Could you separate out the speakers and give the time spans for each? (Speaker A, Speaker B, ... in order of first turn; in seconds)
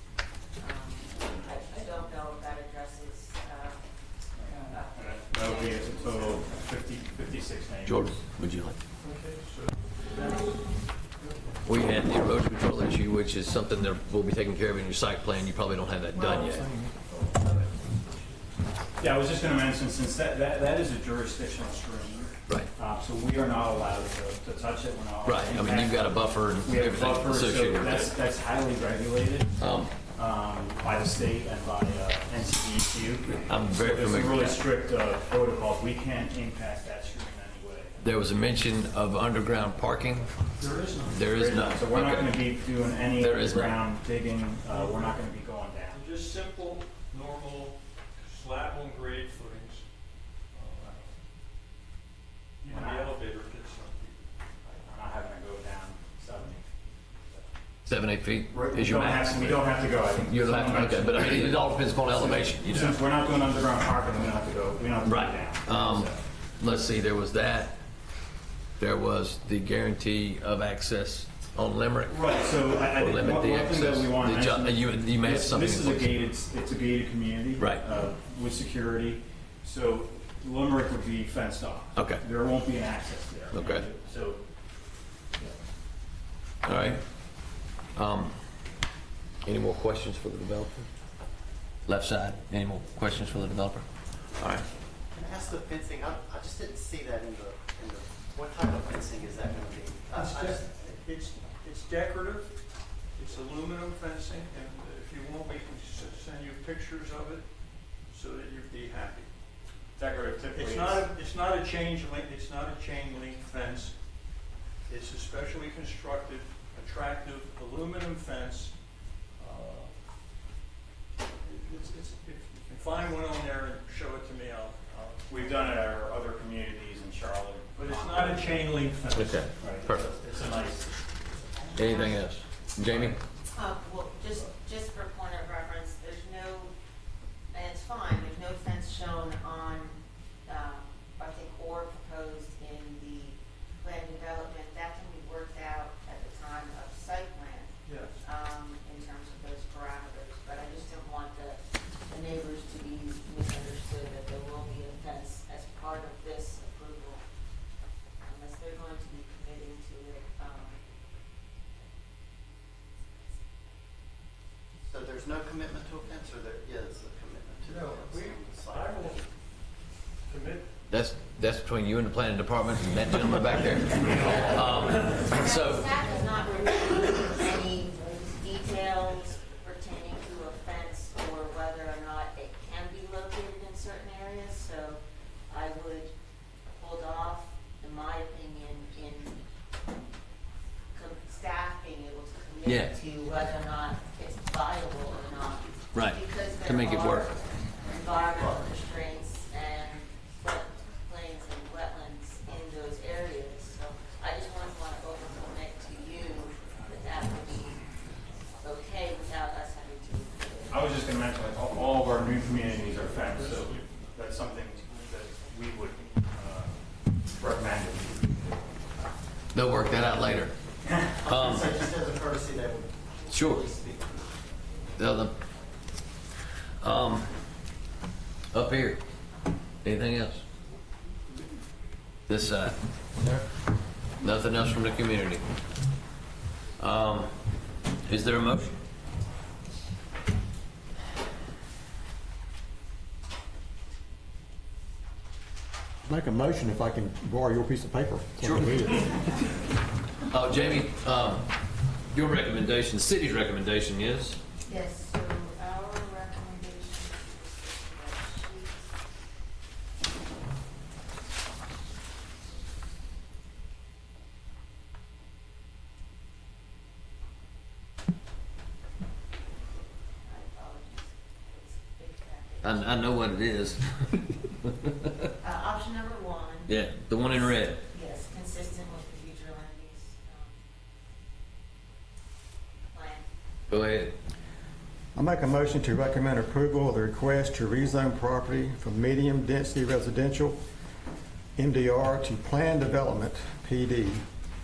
Speaker A: 0.6-3.8, 4.5-6.5, 131.8-132.2, 133.5-136.7, 137.5-157.2, 158.2-160.8, 174.1-186.1, 186.7-189.4, 190.9-207.9, 208.6-210.7, 254.7-258.9, 270.2-273.3, 275.4-276.8, 277.7-280.6, 282.9-283.3
Speaker B: 4.4-8.1, 19.0-29.6, 30.1-38.0, 41.3-46.0, 52.7-53.2, 54.6-56.7, 58.5-66.2, 72.1-84.4, 110.0-111.0, 125.3-129.0, 129.6-130.8, 132.8-133.2, 210.7-218.6, 220.8-221.3
Speaker C: 7.8-8.8, 11.7-16.7, 25.2-28.2, 29.6-29.9, 33.5-34.6, 38.0-40.3, 41.1-42.5, 43.2-43.9, 57.9-63.0, 65.0-67.8, 68.8-76.2, 77.6-77.8, 82.0-82.2, 83.5-83.9, 86.6-87.0, 88.0-88.4, 89.5-90.9, 91.9-93.9, 94.4-94.7, 129.1-130.1, 131.8-133.2, 170.9-176.0, 192.7-192.9, 195.9-197.3, 219.5-220.6, 221.2-221.8, 223.3-223.7, 224.9-225.4, 226.8-227.3, 228.5-229.0, 229.8-230.4, 232.3-232.8, 234.2-235.4, 236.8-237.3, 238.1-238.8, 248.4-249.2, 250.3-251.5, 252.1-254.4, 272.6-275.1, 276.7-277.8, 283.7-284.1
Speaker D: 9.0-11.6, 16.3-18.6, 40.6-41.3, 44.7-45.2, 45.9-49.9, 50.5-51.1, 52.6-54.3, 100.1-102.5, 103.2-107.5, 108.1-109.3, 110.5-114.0, 114.9-118.7, 119.4-120.0, 121.4-125.8, 127.8-129.6, 147.8-148.2, 167.7-169.2, 170.3-170.7, 174.1-175.2, 213.2-214.0
Speaker E: 95.1-100.7, 130.0-132.1, 164.9-169.3, 221.2-224.5
Speaker F: 246.0-249.3, 285.1-290.6, 291.6-294.2